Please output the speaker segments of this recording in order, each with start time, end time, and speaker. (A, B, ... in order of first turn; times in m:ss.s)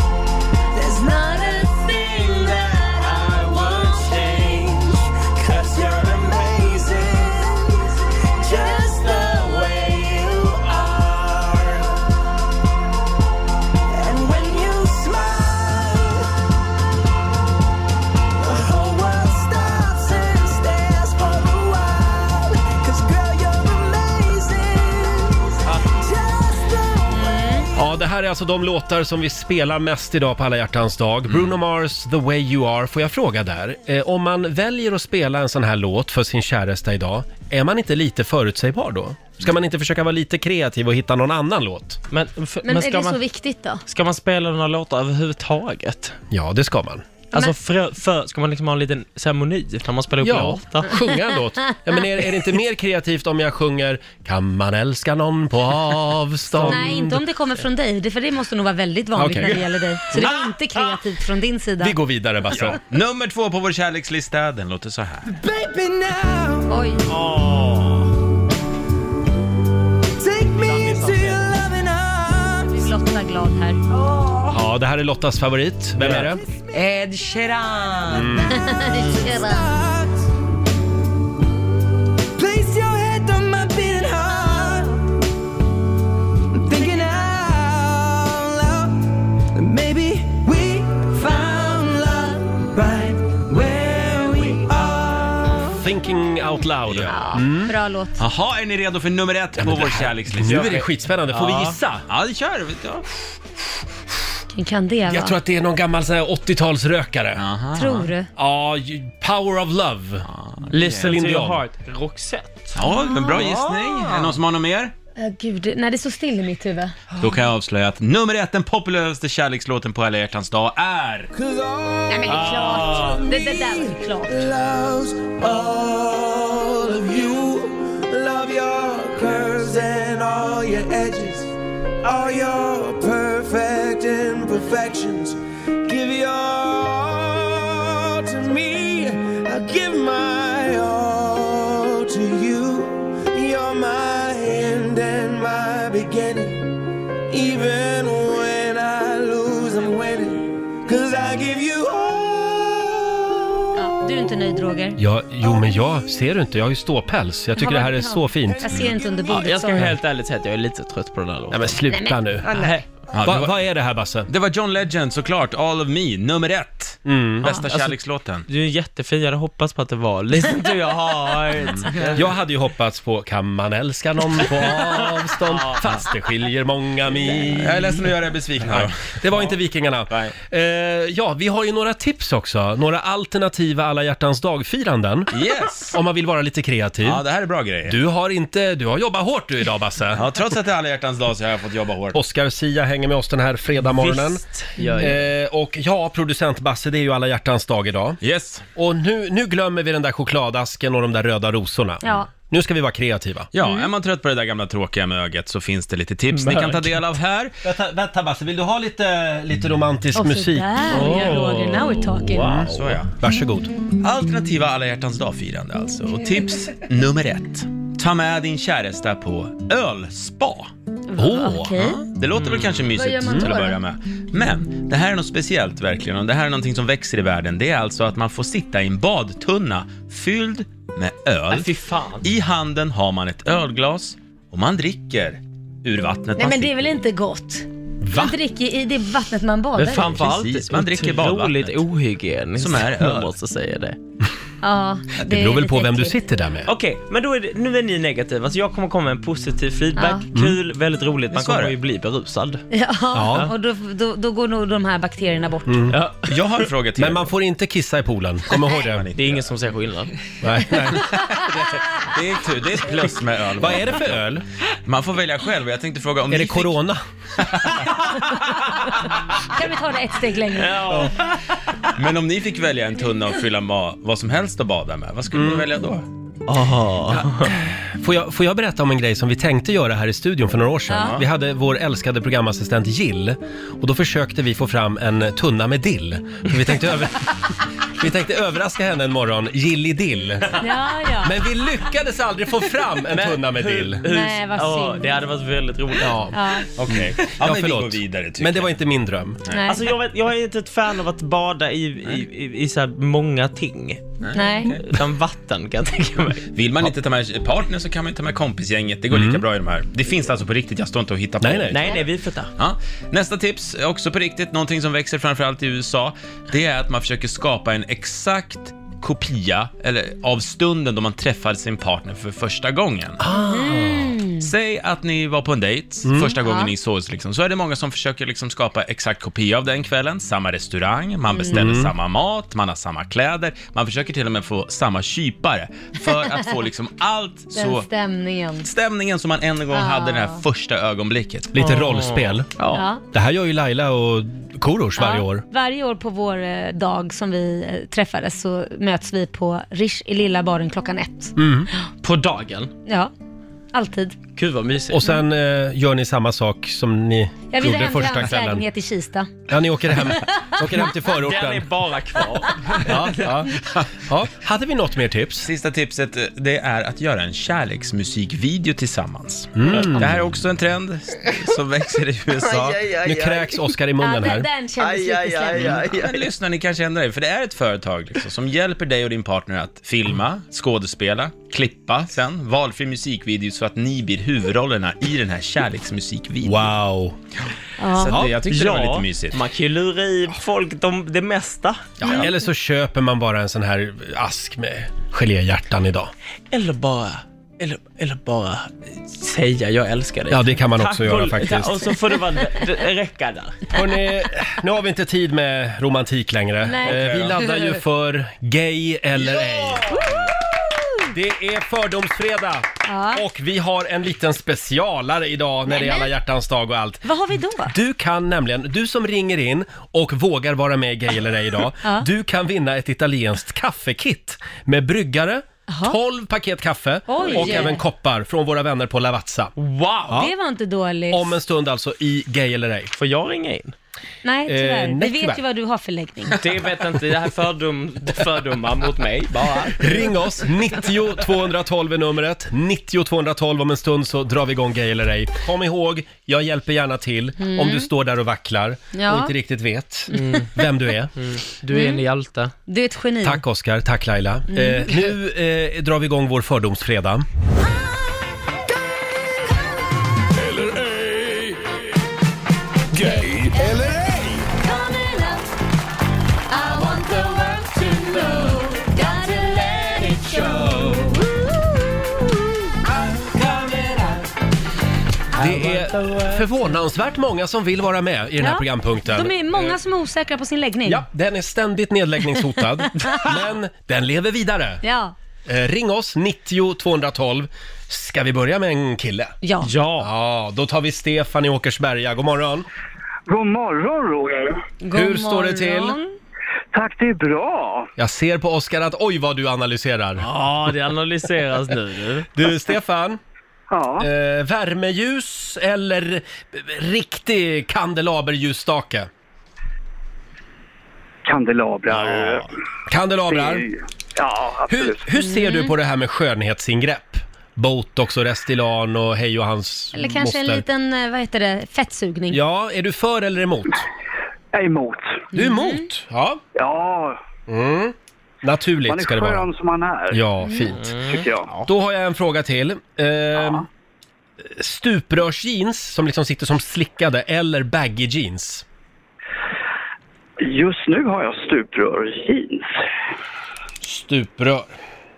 0:00.7-0:12.0 A
0:13.9-0:16.3 A
0:18.4-0:27.8 A
0:27.1-0:27.7 B
0:27.8-0:42.0 C
0:31.3-0:31.6 D
0:42.1-0:43.2 E
0:42.6-0:43.8 B
0:43.9-0:46.2 E
0:46.3-0:47.0 C
0:47.3-0:50.9 E
0:50.2-0:57.1 C
0:56.5-0:57.2 E
0:56.6-1:02.0 B
0:59.1-1:00.3 C
1:01.8-1:02.8 C
1:02.6-1:05.3 D
1:05.3-1:06.7 A
1:06.7-1:07.0 B
1:07.1-1:07.4 E
1:07.3-1:07.8 A
1:10.2-1:12.8 A
1:10.6-1:11.5 E
1:12.7-1:13.8 B
1:13.9-1:14.6 A
1:14.5-1:16.4 C
1:16.0-1:16.3 E
1:16.0-1:20.2 A
1:18.1-1:18.5 C
1:18.5-1:19.7 B
1:22.4-1:25.0 A
1:26.5-1:35.8 A
1:35.8-1:37.7 C
1:36.9-1:37.4 D
1:37.1-1:38.2 B
1:38.2-1:40.8 D
1:39.6-1:42.0 C
1:40.4-1:41.8 E
1:42.0-1:43.1 D
1:44.5-1:45.4 B
1:45.1-1:47.4 C
1:47.4-1:48.1 D
1:47.7-1:48.3 B
1:48.4-1:50.3 C
1:50.3-1:51.1 D
1:50.7-1:52.8 E
1:50.8-1:51.6 C
1:52.7-1:54.9 D
1:52.8-1:53.4 B
1:53.4-1:54.4 A
1:55.2-1:57.0 B
1:57.2-2:01.3 D
2:01.3-2:26.8 A
2:02.1-2:04.4 B
2:02.3-2:02.7 E
2:27.3-2:33.5 A
2:33.8-2:35.0 B
2:35.0-2:38.8 C
2:37.6-2:39.9 B
2:38.6-2:39.4 A
2:39.3-2:41.8 E
2:41.5-2:42.6 C
2:41.9-2:42.4 B
2:42.4-2:42.8 E
2:43.1-2:43.6 D
2:43.2-2:44.3 C
2:44.3-2:48.5 D
2:47.0-2:47.5 C
2:47.5-2:48.0 E
2:48.5-2:52.3 E
2:52.1-2:58.0 C
2:55.4-2:55.8 E
2:57.5-2:59.2 D
2:58.6-3:05.3 C
3:00.1-3:00.3 D
3:05.3-3:06.0 D
3:05.9-3:07.2 C
3:07.0-3:08.0 D
3:07.8-3:10.3 C
3:10.1-3:12.2 D
3:12.1-3:14.4 C
3:13.8-3:15.3 E
3:15.0-3:18.2 C
3:18.2-3:18.6 D
3:18.7-3:23.5 C
3:22.0-3:22.3 B
3:23.5-3:27.6 D
3:23.6-3:23.9 B
3:26.3-3:27.0 E
3:27.6-3:31.2 C
3:30.1-3:32.6 B
3:30.9-3:33.0 E
3:32.4-3:33.7 C
3:32.6-3:33.1 D
3:34.0-3:40.7 D
3:41.1-3:42.0 B
3:41.2-3:41.8 C
3:41.8-3:56.9 D
3:42.3-3:42.9 E
3:42.9-3:43.8 B
3:43.3-3:43.5 C
3:51.5-3:52.3 E
3:56.4-4:00.2 B
3:58.0-3:58.3 C
3:59.7-4:04.0 E
4:00.1-4:01.8 D
4:02.6-4:03.3 D
4:04.6-4:06.2 B
4:05.2-4:06.7 C
4:06.6-4:12.6 E
4:10.0-4:10.3 B
4:11.3-4:11.8 D
4:12.7-4:15.9 B
4:13.1-4:13.5 C
4:15.7-4:16.0 C
4:15.9-4:16.3 E
4:16.2-4:17.3 D
4:17.0-4:19.1 C
4:18.7-4:19.5 D
4:19.2-4:20.1 E
4:20.4-4:21.0 C
4:22.0-4:24.3 D
4:23.6-4:24.4 C
4:24.8-4:26.8 D
4:26.3-4:27.0 C
4:27.4-4:28.3 D
4:29.5-4:31.1 B
4:30.6-4:31.1 E
4:32.0-4:36.0 D
4:35.3-4:35.6 C
4:36.5-4:37.6 E
4:37.8-4:47.3 C
4:40.9-4:41.2 D
4:48.0-4:50.6 C
4:50.6-4:51.4 B
4:51.2-4:54.1 C
4:53.0-4:56.3 E
4:54.0-4:55.1 B
4:56.0-4:56.4 C
4:56.3-4:56.7 B
4:56.7-4:58.7 D
4:56.9-4:59.4 C
4:59.5-4:59.7 D
4:59.5-4:59.8 B
4:59.7-5:04.2 E
5:04.2-5:05.0 D
5:04.3-5:04.8 B
5:04.8-5:06.5 E
5:06.5-5:12.0 D
5:09.1-5:09.4 C
5:11.4-5:11.8 C
5:11.7-5:12.5 E
5:12.6-5:23.2 D
5:23.2-5:24.2 C
5:23.3-5:24.5 B
5:24.4-5:37.9 D
5:26.2-5:26.7 B
5:31.3-5:31.7 B
5:31.5-5:31.9 C
5:37.5-5:38.7 B
5:38.6-5:41.5 D
5:39.7-5:40.4 B
5:41.5-5:42.5 C
5:41.6-5:42.9 E
5:42.7-5:43.0 B
5:43.1-5:45.4 C
5:45.0-5:51.3 B
5:51.4-5:51.7 C
5:52.0-5:52.7 E
5:52.8-5:53.1 B
5:53.7-5:54.2 B
5:54.3-5:55.1 E
5:54.9-5:58.6 C
5:57.5-5:59.3 B
5:59.5-6:01.7 C
6:01.2-6:03.0 E
6:02.8-6:05.5 C
6:05.4-6:12.9 D
6:09.6-6:10.3 C
6:12.3-6:13.6 A
6:13.0-6:14.5 C
6:14.0-6:16.0 B
6:14.8-6:16.3 A
6:15.6-6:26.7 D
6:26.4-6:27.2 C
6:27.8-6:28.2 B
6:27.9-6:29.4 D
6:28.1-6:28.4 C
6:28.3-6:32.2 E
6:32.0-6:36.1 C
6:36.5-6:43.6 E
6:40.3-6:41.9 C
6:43.7-6:50.1 C
6:46.6-6:47.0 B
6:46.8-6:47.4 D
6:51.1-6:57.1 C
6:52.8-6:53.2 B
6:55.7-6:56.1 B
6:57.0-6:57.7 B
6:57.7-7:09.5 C
7:05.7-7:06.0 B
7:07.1-7:07.8 B
7:07.2-7:07.7 E
7:09.6-7:10.2 E
7:10.1-7:11.4 B
7:11.1-7:12.9 C
7:12.9-7:13.7 E
7:14.2-7:16.4 B
7:14.5-7:15.4 C
7:16.4-7:20.1 E
7:19.8-7:31.2 C
7:27.4-7:27.9 B
7:28.9-7:29.3 B
7:30.1-7:30.4 B
7:30.1-7:30.5 E
7:31.2-7:32.5 E
7:31.7-7:32.0 B
7:32.7-7:33.4 B
7:33.2-7:37.2 C
7:34.5-7:35.1 B
7:40.3-7:41.6 F
7:42.9-7:44.5 F
7:43.0-7:43.8 B
7:44.6-7:45.5 B
7:46.5-7:47.6 B
7:46.9-7:51.4 A
7:48.8-7:50.6 B
7:52.8-7:54.3 A
7:55.4-7:56.6 E
7:55.4-7:59.3 C
7:58.4-8:01.0 B
8:00.8-8:04.8 C
8:04.8-8:05.1 B
8:05.5-8:09.4 C
8:09.4-8:09.7 B
8:09.6-8:10.1 E
8:10.0-8:12.6 C
8:13.3-8:14.6 G
8:14.8-8:16.1 B
8:14.9-8:16.0 C
8:16.7-8:17.9 G
8:18.0-8:20.3 C
8:20.2-8:22.3 E
8:22.3-8:23.2 C
8:23.7-8:24.1 G
8:24.0-8:29.1 C
8:31.2-8:32.5 G
8:31.9-8:32.4 E
8:32.9-8:33.7 C
8:33.3-8:35.1 G
8:34.7-8:40.6 C
8:35.2-8:35.7 B
8:39.9-8:42.4 B
8:42.3-8:43.8 C
8:44.5-8:45.3 G
8:45.3-8:46.4 C
8:45.3-8:45.8 B
8:46.5-8:47.2 G
8:47.5-8:49.5 C
8:48.9-8:50.2 G
8:50.1-8:50.8 C
8:50.8-8:51.7 E
8:50.9-8:51.5 G
8:51.6-8:53.6 C
8:54.4-8:58.6 C
9:00.4-9:02.8 G
9:03.8-9:04.7 C